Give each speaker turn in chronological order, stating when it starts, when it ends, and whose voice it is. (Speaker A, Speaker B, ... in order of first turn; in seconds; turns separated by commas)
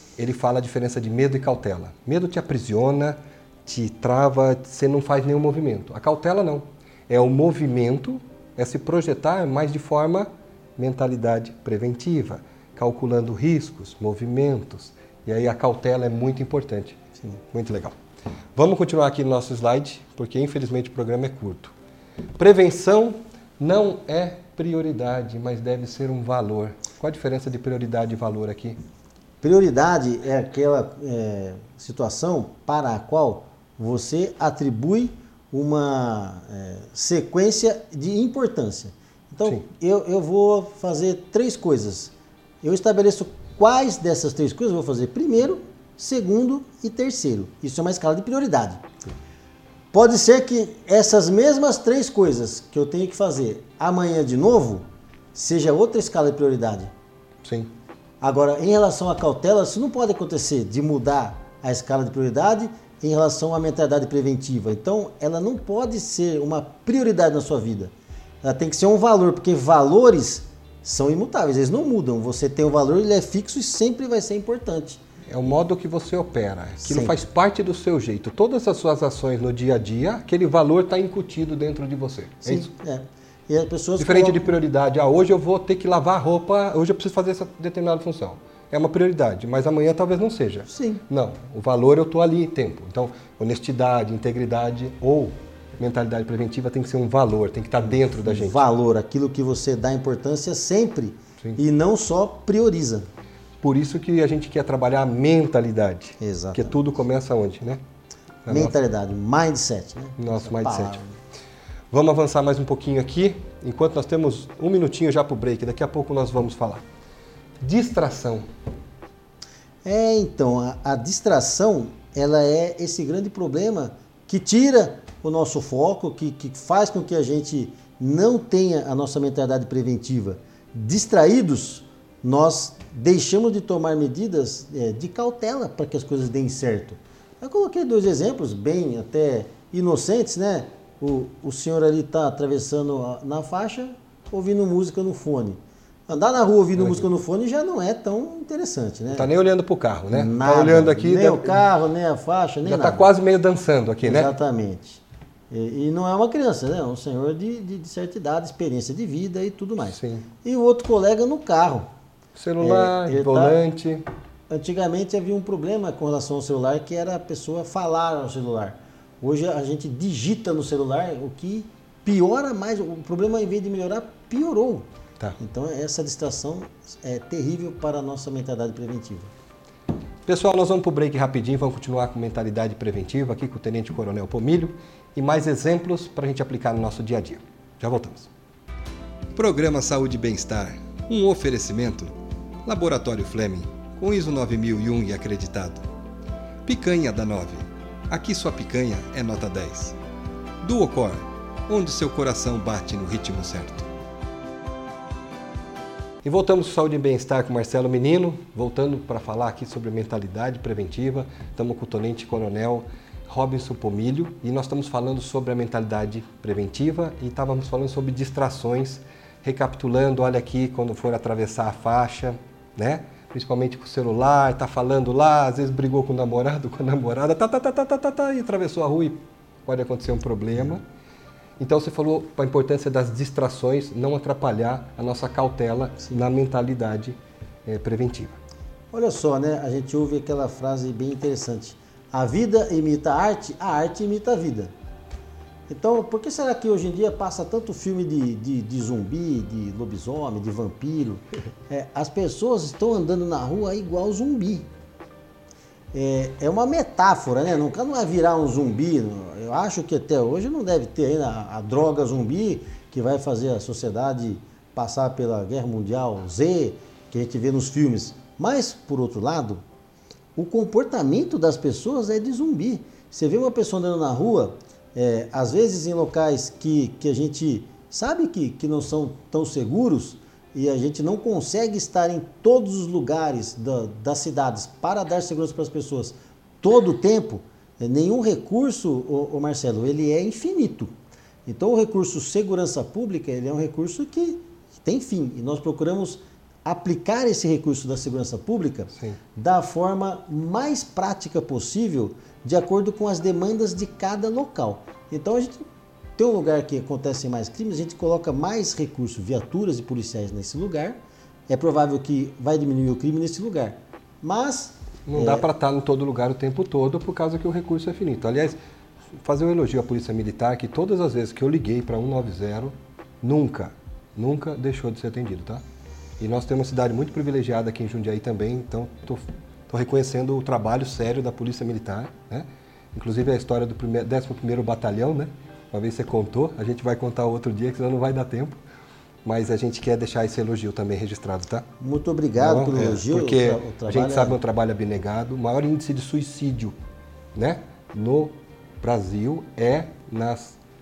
Speaker A: 0.2-17.0, Speaker A: 17.5-17.9, Speaker A: 18.5-21.7, Speaker A: 22.4-28.8, Speaker B: 29.4-48.8, Speaker B: 49.9-54.8, Speaker B: 55.3-56.9, Speaker A: 57.4-57.7, Speaker B: 58.2-67.9, Speaker B: 68.4-75.0, Speaker A: 75.3-82.7, Speaker B: 76.8-77.2, Speaker B: 82.5-84.6, Speaker A: 84.0-98.6, Speaker B: 90.7-91.0, Speaker B: 97.8-103.0, Speaker A: 103.6-107.8, Speaker B: 106.2-106.8, Speaker A: 108.5-108.7, Speaker B: 108.5-111.2, Speaker A: 110.2-111.0, Speaker A: 111.9-116.8, Speaker A: 117.6-118.5, Speaker B: 119.8-149.3, Speaker A: 146.8-147.1, Speaker A: 149.1-151.6, Speaker B: 150.1-153.1, Speaker A: 152.6-154.3, Speaker B: 154.0-161.9, Speaker A: 159.8-160.3, Speaker A: 162.4-164.0, Speaker B: 162.6-163.6, Speaker B: 164.5-174.8, Speaker B: 175.4-179.3, Speaker A: 180.2-188.3, Speaker A: 189.3-192.1, Speaker A: 192.7-195.9, Speaker A: 196.7-200.0, Speaker A: 200.6-203.9, Speaker A: 206.2-230.8, Speaker A: 231.6-238.4, Speaker B: 238.9-244.7, Speaker B: 245.7-254.7, Speaker B: 255.9-269.6, Speaker B: 270.4-290.9, Speaker B: 291.5-305.6, Speaker B: 306.2-311.0, Speaker B: 311.5-315.5, Speaker A: 315.1-318.6, Speaker A: 319.2-325.6, Speaker A: 326.2-338.6, Speaker A: 339.2-341.6, Speaker B: 341.8-344.4, Speaker A: 342.4-346.8, Speaker A: 347.4-350.6